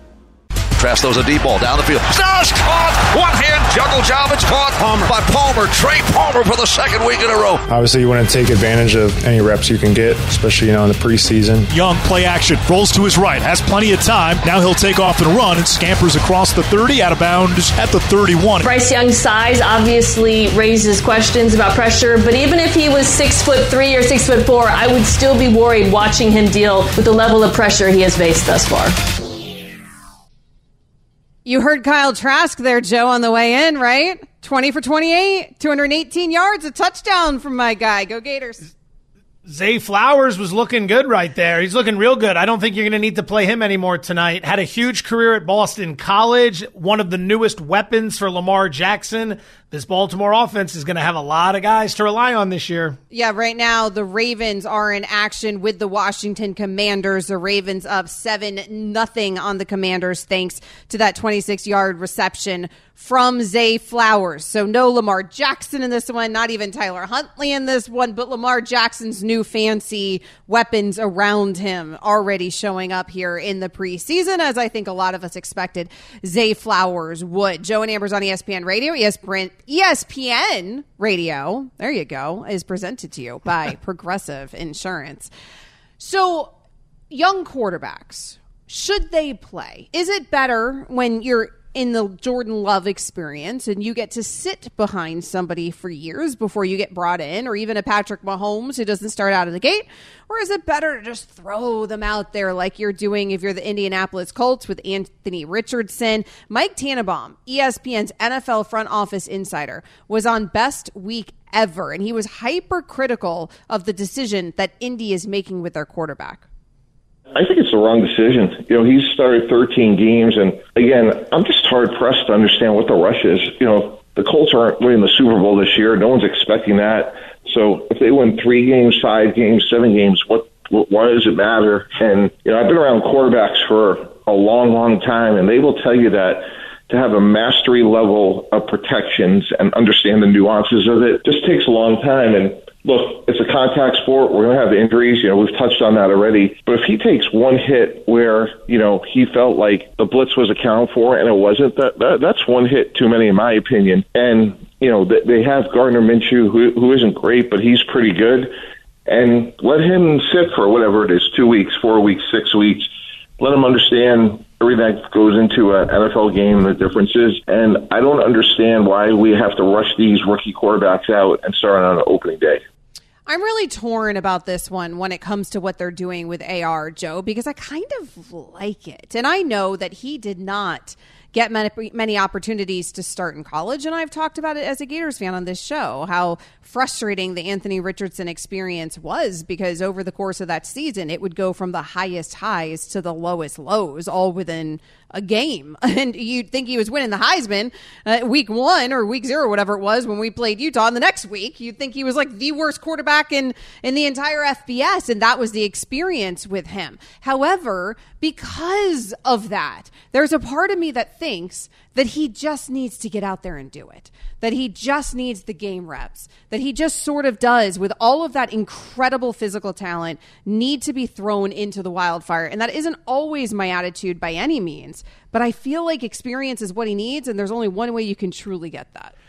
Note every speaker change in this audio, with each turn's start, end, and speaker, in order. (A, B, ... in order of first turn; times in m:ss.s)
0:00.8-0:07.6 A
0:07.7-0:11.7 B
0:11.7-0:18.7 C
0:18.6-0:29.0 D
0:31.4-0:38.7 E
0:39.4-0:53.0 F
0:53.1-1:25.3 E
1:26.0-1:26.5 E
1:27.1-1:56.4 E
1:57.3-2:38.5 G
2:39.1-2:52.6 G
2:53.3-3:49.1 E